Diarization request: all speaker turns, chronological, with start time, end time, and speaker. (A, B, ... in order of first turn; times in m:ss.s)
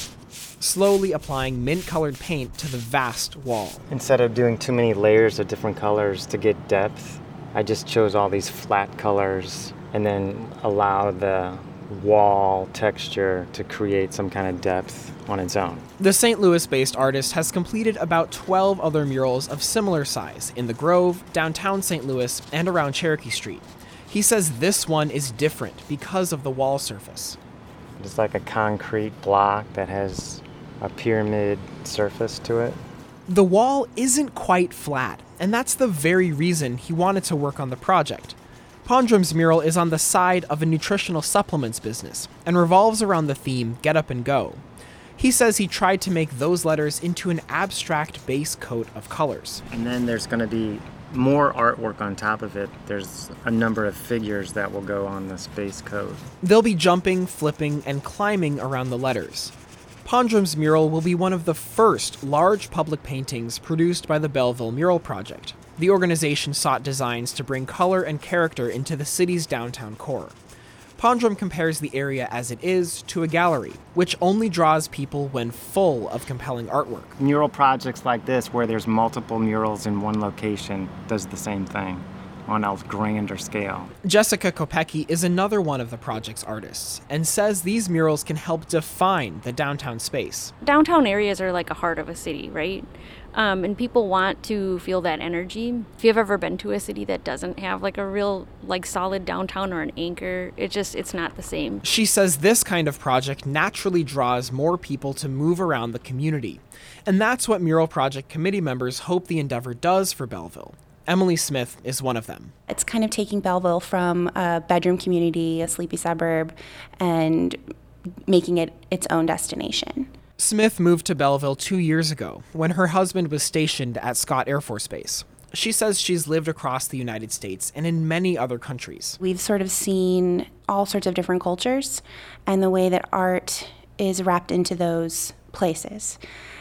0:00.6-0:03.8 A
0:03.9-0:15.8 B
0:16.0-0:27.4 A
0:28.0-0:32.8 B
0:33.3-0:44.6 A
0:45.2-0:49.6 A
0:49.7-0:56.2 B
0:56.4-0:59.5 A
1:00.0-1:10.4 A
1:11.0-1:17.2 A
1:17.2-1:23.9 B
1:24.0-1:30.5 A
1:30.6-1:41.8 C
1:41.8-1:52.5 A
1:52.7-1:57.6 D
1:58.3-2:00.1 D
2:00.4-2:09.2 A
2:09.2-2:16.2 D